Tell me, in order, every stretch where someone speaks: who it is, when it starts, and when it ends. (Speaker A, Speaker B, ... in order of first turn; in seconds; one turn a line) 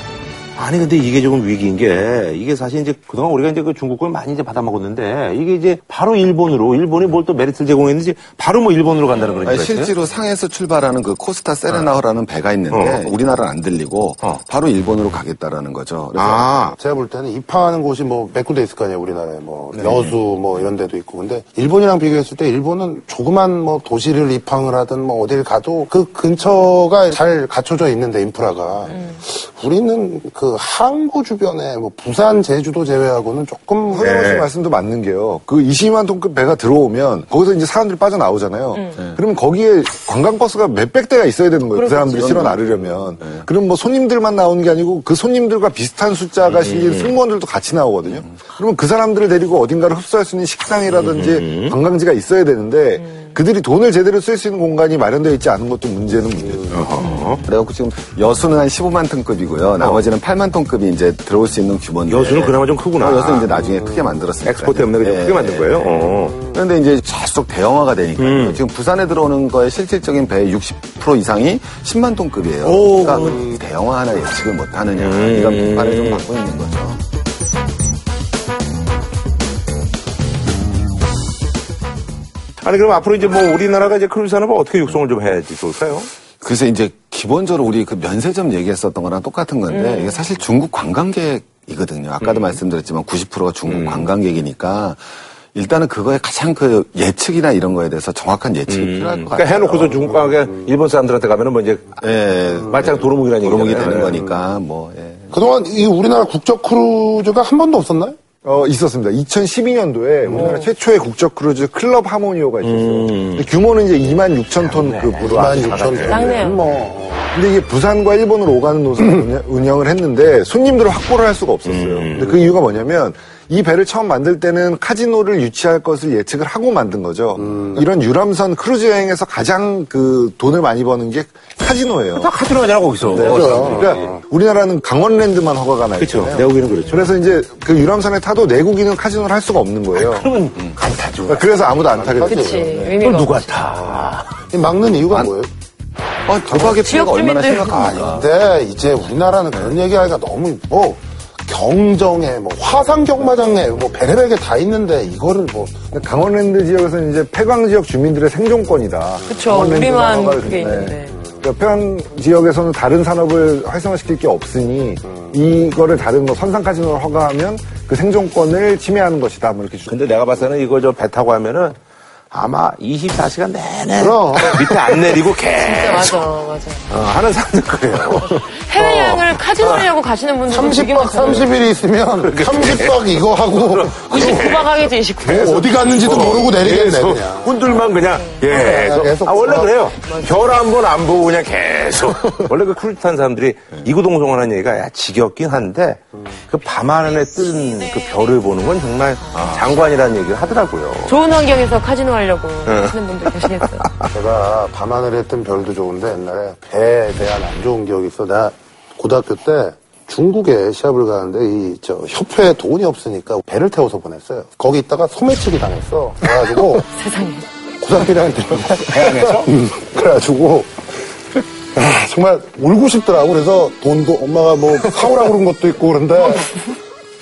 Speaker A: 0.6-9.9
Speaker B: 9.4-16.6
Speaker A: 11.7-12.0
Speaker A: 12.7-13.2
Speaker A: 16.2-16.8
Speaker C: 16.8-34.1
Speaker A: 19.8-20.1
Speaker D: 33.9-56.9
Speaker A: 34.0-34.5
Speaker E: 41.7-42.5
Speaker B: 42.1-43.5
Speaker A: 46.5-47.1
Speaker A: 50.9-51.8
Speaker E: 53.0-53.3
Speaker A: 56.7-57.4
Speaker E: 57.0-57.4
Speaker B: 57.4-77.0
Speaker A: 62.1-63.5
Speaker A: 64.5-66.5
Speaker A: 68.2-68.6
Speaker A: 72.6-73.4
Speaker C: 73.0-73.5
Speaker A: 75.0-76.3
Speaker A: 82.6-86.1
Speaker B: 86.4-99.9
Speaker E: 89.7-90.2
Speaker A: 92.2-92.6
Speaker A: 93.7-94.1
Speaker A: 98.7-102.0
Speaker B: 102.0-105.4
Speaker A: 102.7-104.2
Speaker C: 104.0-104.3
Speaker C: 105.3-108.2
Speaker D: 108.4-116.2
Speaker C: 110.3-110.6
Speaker E: 110.3-110.7
Speaker A: 112.6-113.5
Speaker A: 114.5-116.8
Speaker C: 115.2-117.3
Speaker E: 116.1-116.6
Speaker D: 117.3-132.3
Speaker A: 121.7-122.4
Speaker C: 127.4-127.8
Speaker A: 132.2-134.1
Speaker D: 133.1-140.3
Speaker C: 133.1-134.2
Speaker A: 136.0-137.1
Speaker A: 139.9-141.7
Speaker D: 141.2-143.0
Speaker C: 141.8-142.7
Speaker E: 142.2-143.5
Speaker A: 143.0-144.4
Speaker C: 143.7-145.5
Speaker B: 146.3-148.3
Speaker E: 146.6-148.1
Speaker C: 148.0-155.9
Speaker D: 155.9-169.9
Speaker E: 159.3-161.2
Speaker A: 169.9-171.8
Speaker A: 172.3-176.2
Speaker C: 174.0-174.9
Speaker E: 175.6-176.9
Speaker A: 176.9-179.9
Speaker E: 178.1-181.5
Speaker C: 180.5-184.6
Speaker A: 182.2-201.2
Speaker E: 184.1-186.5
Speaker C: 185.2-187.6
Speaker E: 188.1-188.8
Speaker C: 188.5-189.8
Speaker E: 190.0-190.4
Speaker E: 199.2-199.6
Speaker B: 199.3-199.7
Speaker E: 201.1-203.9
Speaker A: 202.7-204.1
Speaker C: 204.1-216.9
Speaker E: 216.9-217.5
Speaker C: 217.8-220.7
Speaker A: 218.6-219.5
Speaker C: 221.7-226.7